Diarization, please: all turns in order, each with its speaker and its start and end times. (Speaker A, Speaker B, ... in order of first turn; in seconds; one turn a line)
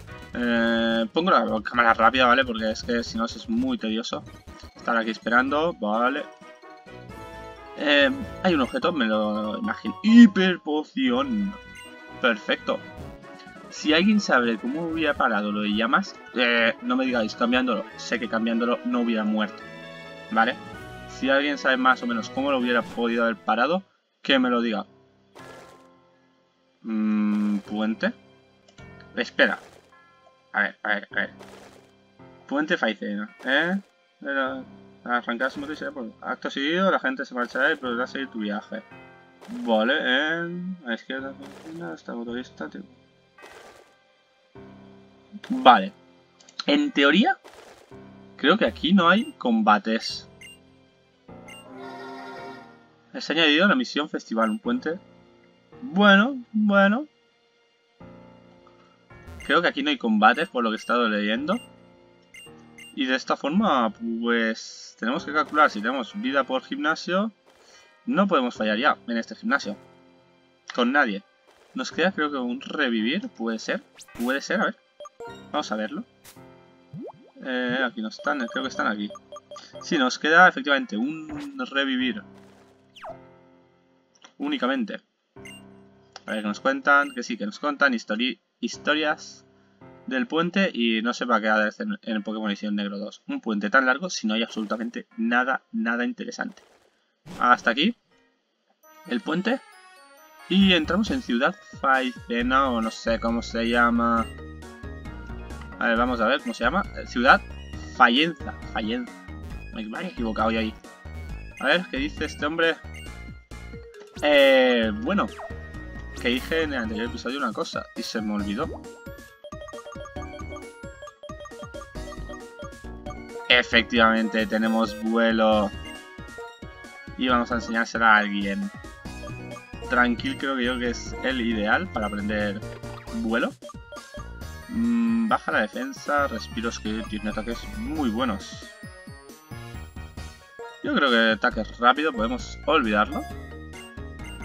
Speaker A: 0.3-4.3
Speaker A: 4.8-6.3
Speaker A: 7.8-11.6
Speaker A: 12.2-12.8
Speaker A: 13.7-19.7
Speaker A: 20.3-24.9
Speaker A: 26.8-28.1
Speaker A: 29.1-29.6
Speaker A: 30.5-31.4
Speaker A: 32.5-38.9
Speaker A: 39.5-43.0
Speaker A: 45.5-46.0
Speaker A: 46.7-47.4
Speaker A: 48.4-50.3
Speaker A: 53.1-55.0
Speaker A: 55.8-57.1
Speaker A: 59.4-61.6
Speaker A: 62.9-67.3
Speaker A: 68.0-69.8
Speaker A: 70.7-74.8
Speaker A: 75.5-76.1
Speaker A: 77.4-79.2
Speaker A: 79.8-82.3
Speaker A: 84.4-85.0
Speaker A: 86.3-89.4
Speaker A: 90.1-96.6
Speaker A: 97.4-98.0
Speaker A: 99.1-99.6
Speaker A: 100.5-104.3
Speaker A: 105.8-109.1
Speaker A: 109.7-110.8
Speaker A: 111.6-112.8
Speaker A: 114.2-115.3
Speaker A: 116.2-118.7
Speaker A: 123.5-125.7
Speaker A: 127.2-128.7
Speaker A: 129.9-133.6
Speaker A: 134.7-138.8
Speaker A: 140.8-143.3